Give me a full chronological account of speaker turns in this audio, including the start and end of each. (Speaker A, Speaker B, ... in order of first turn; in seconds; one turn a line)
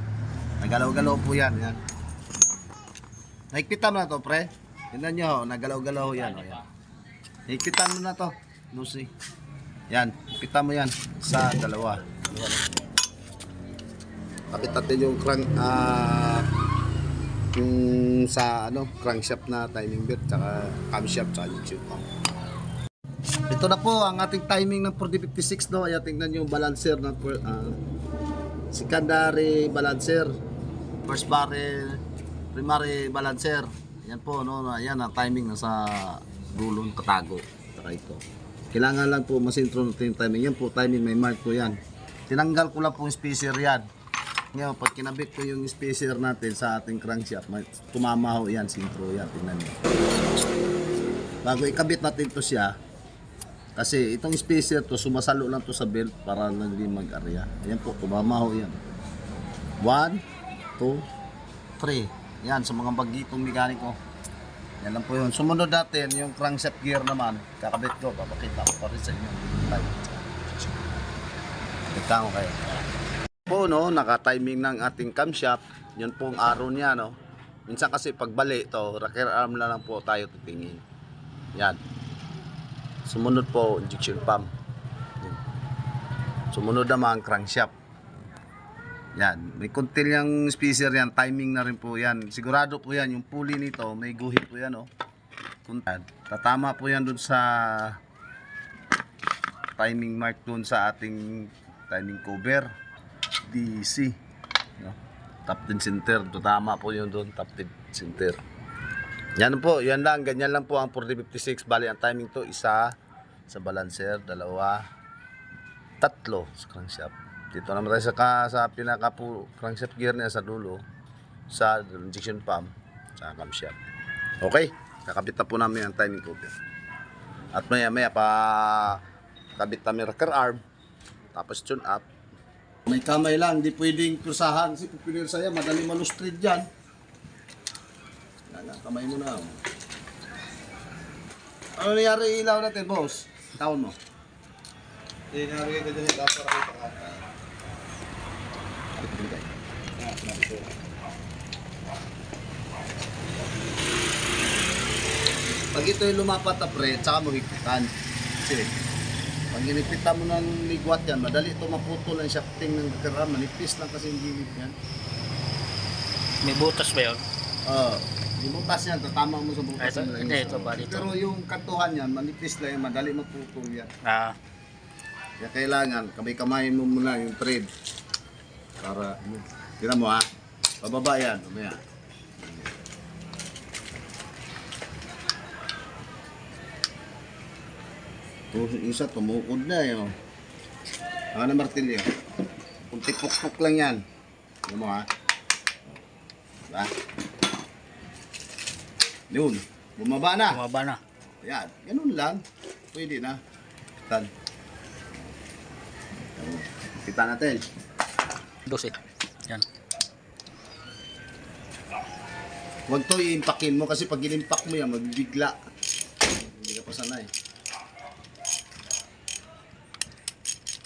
Speaker A: 0.6-1.8
Speaker A: 3.5-6.7
Speaker A: 7.5-9.1
Speaker A: 9.9-12.7
Speaker A: 14.5-16.5
Speaker A: 17.5-22.1
Speaker A: 23.5-27.8
Speaker A: 28.7-30.3
Speaker A: 31.0-32.0
Speaker A: 32.5-43.9
Speaker A: 44.5-49.8
Speaker A: 51.4-52.8
Speaker A: 53.8-58.8
Speaker A: 59.8-60.2
Speaker A: 60.8-61.0
Speaker A: 61.8-64.0
Speaker A: 64.8-70.3
Speaker A: 71.9-72.8
Speaker A: 73.5-77.2
Speaker A: 77.7-80.8
Speaker A: 81.5-81.8
Speaker A: 83.0-84.5
Speaker A: 86.5-87.7
Speaker A: 89.2-94.9
Speaker A: 95.6-98.0
Speaker A: 99.8-102.7
Speaker A: 103.5-104.2
Speaker A: 104.8-108.4
Speaker A: 109.3-112.9
Speaker A: 113.5-114.8
Speaker A: 116.0-120.8
Speaker A: 121.5-123.8
Speaker A: 124.4-126.5
Speaker A: 127.5-129.0
Speaker A: 129.6-130.6
Speaker A: 131.3-132.1
Speaker A: 132.8-136.7
Speaker A: 138.5-139.6
Speaker A: 141.8-143.9
Speaker B: 145.3-147.2
Speaker A: 148.9-149.4
Speaker B: 150.0-150.7
Speaker A: 155.7-158.7
Speaker A: 159.5-164.8
Speaker C: 166.4-167.2
Speaker A: 167.6-173.9
Speaker C: 169.8-171.1
Speaker C: 174.0-174.3
Speaker A: 175.4-177.7
Speaker A: 178.8-180.2
Speaker A: 180.8-181.8
Speaker A: 182.4-182.7
Speaker A: 188.5-190.1
Speaker A: 191.3-192.1
Speaker A: 192.9-194.0
Speaker A: 194.7-195.1
Speaker A: 196.7-196.9
Speaker A: 199.3-200.6
Speaker C: 200.5-201.0
Speaker A: 201.4-203.4
Speaker A: 204.0-204.3
Speaker A: 206.3-207.7
Speaker C: 208.7-208.9
Speaker A: 212.9-215.6
Speaker A: 216.3-217.3